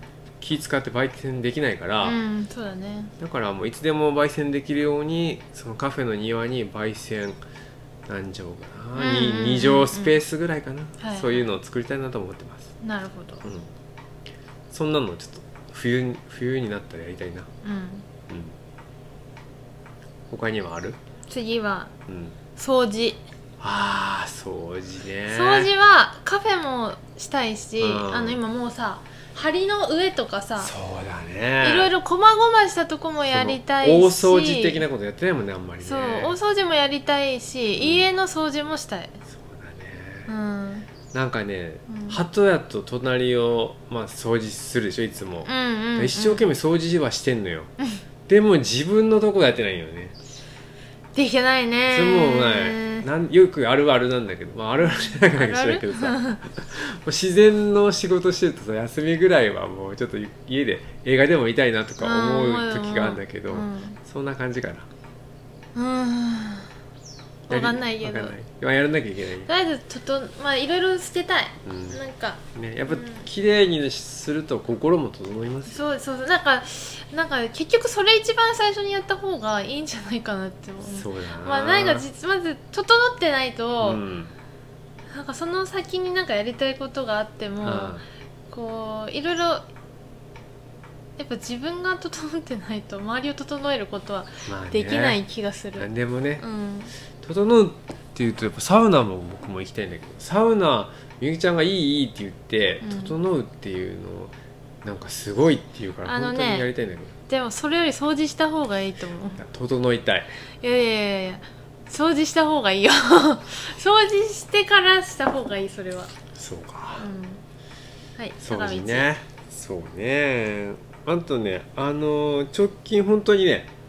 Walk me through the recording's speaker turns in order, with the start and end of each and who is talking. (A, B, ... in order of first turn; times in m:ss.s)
0:00.4-0:02.2 A
0:02.0-0:03.1 B
0:03.2-0:07.4 A
0:08.0-0:12.7 A
0:08.9-0:10.2 B
0:11.0-0:11.5 B
0:12.8-0:13.4 B
0:13.4-0:13.7 A
0:14.7-0:17.5 A
0:17.6-0:18.0 B
0:18.3-0:18.6 A
0:20.3-0:21.0 A
0:21.3-0:21.9 B
0:22.1-0:22.4 A
0:22.6-0:23.2 B
0:23.6-0:25.7 A
0:25.3-0:30.7 B
0:27.8-0:28.4 A
0:30.6-0:31.9 A
0:31.6-0:34.8 B
0:33.3-0:36.4 A
0:35.8-0:39.2 B
0:37.8-0:38.1 A
0:39.3-0:40.3 A
0:40.3-0:40.9 B
0:41.1-0:47.7 A
0:41.9-0:42.2 B
0:45.4-0:46.4 B
0:48.3-0:50.1 A
0:51.1-0:53.1 B
0:51.9-1:04.9 A
0:54.8-0:56.4 B
1:02.0-1:04.0 B
1:05.7-1:06.7 B
1:07.5-1:08.3 B
1:07.5-1:09.5 A
1:09.4-1:13.3 B
1:11.6-1:12.0 A
1:12.5-1:15.8 A
1:15.7-1:24.0 B
1:20.8-1:22.1 A
1:23.8-1:24.3 A
1:25.1-1:28.0 B
1:27.6-1:28.0 A
1:28.5-1:29.6 B
1:31.2-1:36.9 B
1:34.4-1:35.2 A
1:35.8-1:36.4 A
1:37.1-1:47.1 A
1:42.8-1:43.2 B
1:46.0-1:46.7 B
1:47.3-1:49.4 B
1:49.4-1:50.4 A
1:50.6-1:56.1 B
1:56.3-1:57.1 A
1:57.0-1:57.4 B
1:58.2-1:59.1 B
1:58.4-2:03.7 A